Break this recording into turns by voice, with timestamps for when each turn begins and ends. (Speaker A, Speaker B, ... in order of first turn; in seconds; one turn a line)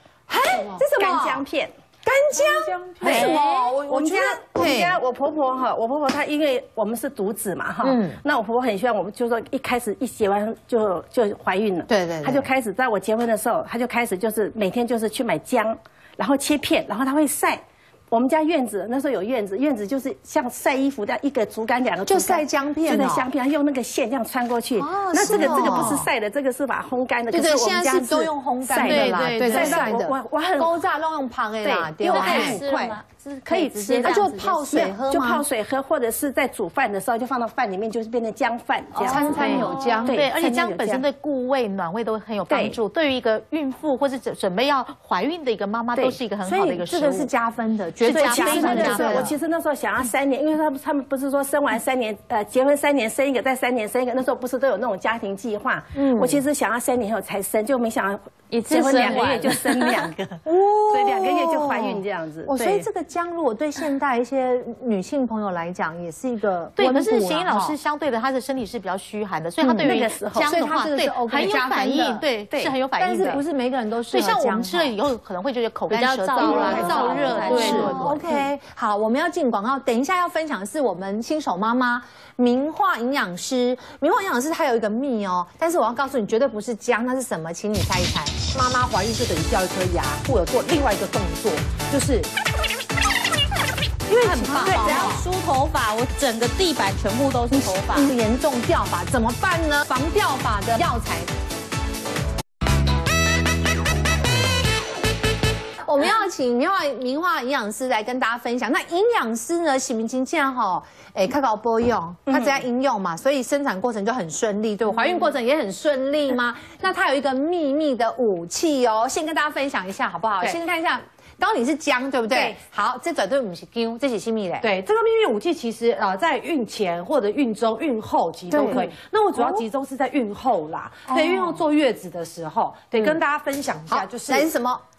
Speaker A: 0.3-1.4
Speaker B: 0.4-1.7
Speaker A: 2.0-5.0
Speaker C: 2.3-3.3
Speaker B: 3.0-30.8
Speaker A: 7.8-8.2
Speaker A: 11.9-12.5
Speaker A: 22.1-23.3
Speaker A: 24.8-26.1
Speaker A: 27.3-32.6
Speaker D: 28.8-29.8
Speaker B: 31.6-41.0
Speaker D: 32.1-35.0
Speaker A: 34.0-35.4
Speaker D: 38.9-40.0
Speaker A: 39.0-40.2
Speaker E: 40.0-47.3
Speaker B: 42.5-42.8
Speaker B: 45.9-46.2
Speaker A: 46.4-49.3
Speaker E: 48.0-49.3
Speaker B: 48.1-62.9
Speaker A: 55.9-56.4
Speaker D: 58.5-60.1
Speaker A: 60.4-67.8
Speaker E: 66.8-73.4
Speaker A: 69.6-72.2
Speaker B: 69.8-70.6
Speaker A: 73.0-75.0
Speaker E: 74.1-78.0
Speaker D: 75.9-78.3
Speaker A: 76.3-88.3
Speaker B: 76.4-78.2
Speaker C: 77.4-78.1
Speaker C: 88.5-92.3
Speaker C: 94.1-95.1
Speaker A: 94.1-95.2
Speaker D: 94.4-98.1
Speaker A: 97.6-101.3
Speaker A: 105.8-124.7
Speaker B: 112.3-112.5
Speaker C: 124.6-134.5
Speaker A: 128.5-129.7
Speaker A: 131.1-131.6
Speaker A: 132.9-133.2
Speaker A: 133.9-134.8